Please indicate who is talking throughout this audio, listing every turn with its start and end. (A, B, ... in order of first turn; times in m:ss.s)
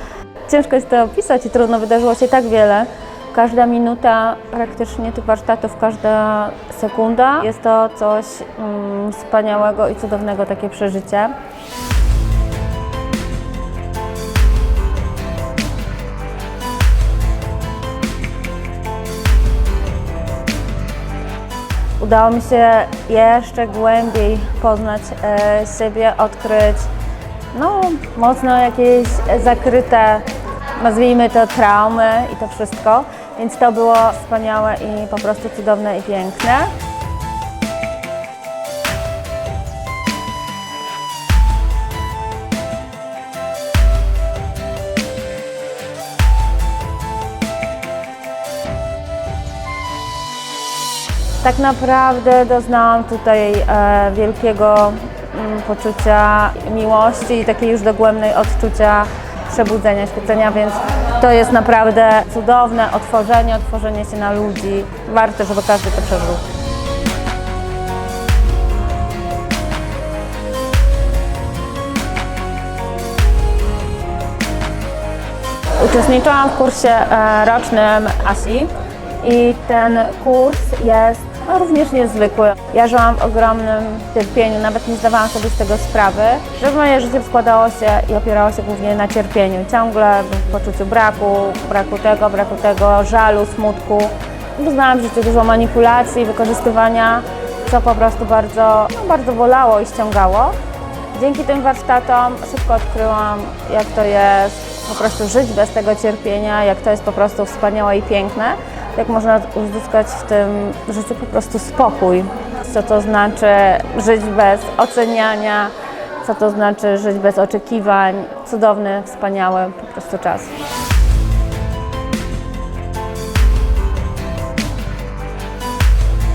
0:00.5-0:11.3 A
0:22.0-0:26.9 A
0:27.5-0:30.2 A
0:30.8-0:36.7 A
0:51.4-1:06.4 A
1:15.8-1:40.5 A
1:41.1-2:00.5 A